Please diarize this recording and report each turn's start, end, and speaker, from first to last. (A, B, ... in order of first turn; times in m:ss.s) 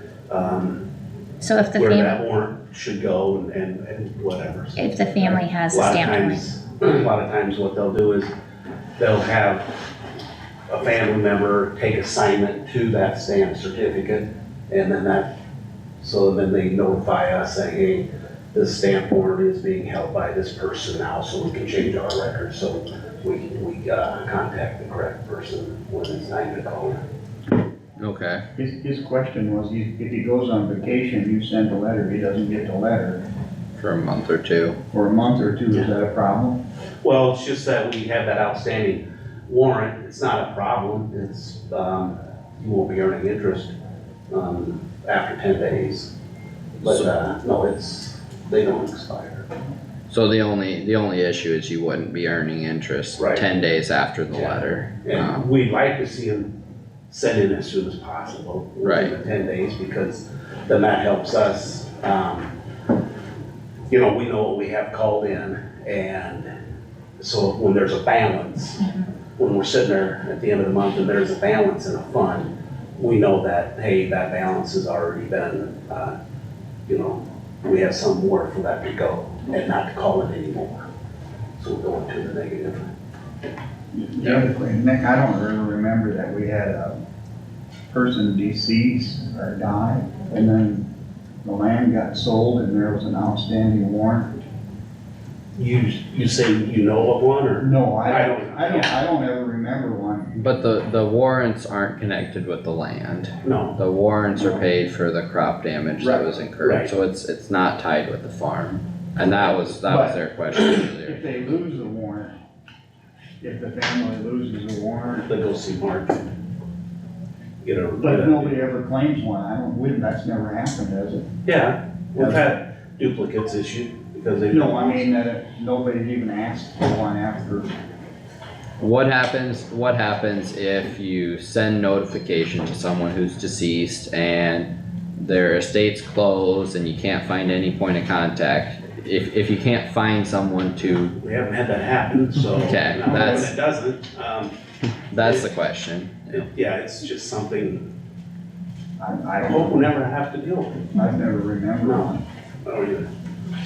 0:00.3-0:00.8 A
0:01.4-0:02.2 B
0:01.8-0:08.3 A
0:04.8-0:06.5 B
0:09.0-0:09.7 A
0:10.7-0:15.3 A
0:16.0-0:27.0 A
0:28.0-0:28.4 C
0:28.6-0:33.2 D
0:33.8-0:34.8 C
0:34.9-0:36.6 D
0:37.0-0:43.7 A
0:44.3-0:46.1 A
0:46.8-0:49.5 A
0:50.1-0:55.5 C
0:53.2-0:53.5 A
0:54.3-0:56.5 A
0:57.1-1:02.5 A
0:58.8-0:59.1 C
1:03.9-1:06.5 A
1:07.2-1:16.2 A
1:16.9-1:20.9 A
1:21.6-1:22.9 A
1:23.9-1:27.0 D
1:27.9-1:30.9 D
1:31.4-1:34.4 D
1:35.6-1:39.0 A
1:37.6-1:40.4 D
1:40.4-1:51.5 C
1:43.4-1:43.8 A
1:44.4-1:44.7 D
1:46.0-1:46.5 D
1:46.6-1:46.9 A
1:49.8-1:50.2 D
1:51.0-1:52.4 D
1:53.4-1:55.3 D
1:55.3-1:56.3 A
1:57.6-1:58.7 A
1:58.0-2:01.3 D
2:01.5-2:05.1 A
2:02.2-2:02.6 D
2:04.5-2:07.7 D
2:08.8-2:21.2 C
2:21.2-2:24.5 A
2:22.6-2:23.5 C
2:22.7-2:23.5 D
2:25.1-2:26.5 C
2:25.2-2:25.5 A
2:26.3-2:27.9 A
2:29.0-2:29.9 D
2:29.4-2:31.0 A
2:31.0-2:32.2 D
2:31.8-2:33.1 A